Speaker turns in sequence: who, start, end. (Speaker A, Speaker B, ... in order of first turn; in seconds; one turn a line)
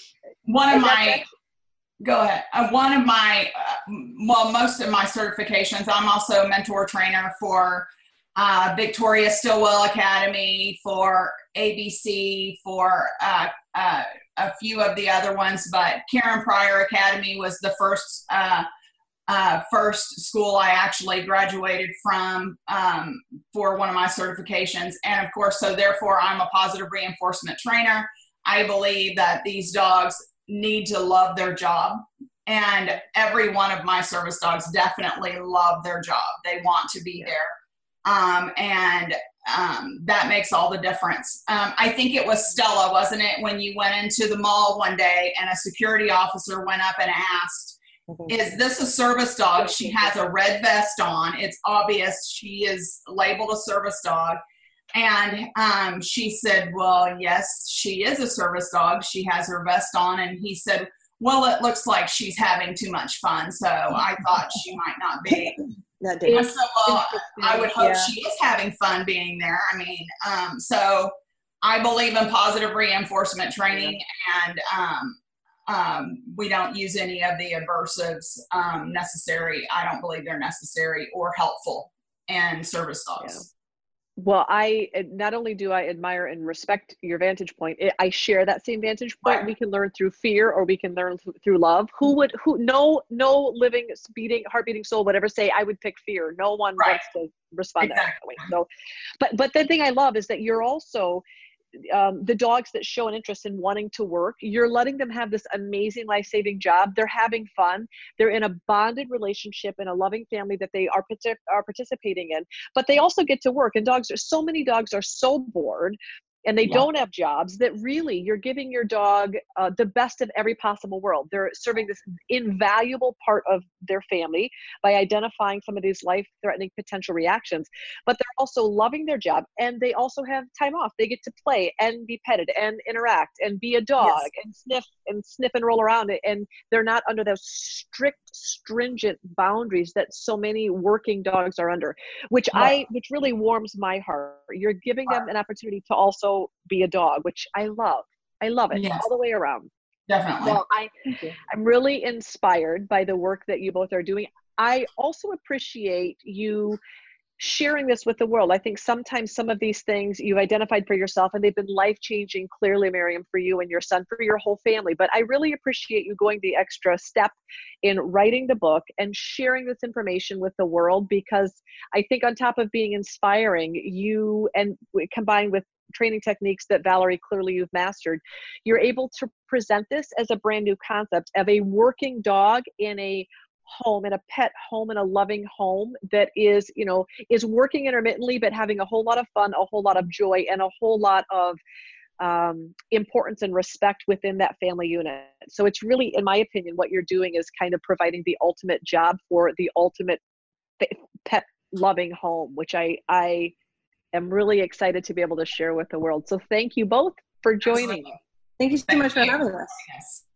Speaker A: 0.5-1.2
Speaker B: 0.7-1.3
Speaker A: 2.0-18.7
Speaker A: 19.3-37.5
Speaker A: 38.0-54.4
Speaker C: 48.1-48.5
Speaker B: 49.8-50.0
Speaker A: 55.0-65.6
Speaker C: 65.3-66.5
Speaker B: 66.2-68.1
Speaker A: 66.3-71.1
Speaker A: 71.6-83.5
Speaker B: 83.2-83.5
Speaker B: 84.2-98.7
Speaker A: 97.8-98.5
Speaker B: 99.2-101.2
Speaker B: 101.9-149.7
Speaker A: 134.0-134.3
Speaker A: 148.7-149.1
Speaker A: 150.1-150.6
Speaker B: 150.4-150.9
Speaker C: 151.1-151.4
Speaker B: 151.5-156.8
Speaker B: 157.4-191.6
Speaker B: 192.2-200.2
Speaker B: 200.8-203.5
Speaker B: 204.2-208.2
Speaker A: 207.7-208.0
Speaker C: 208.6-209.8
Speaker A: 208.9-210.3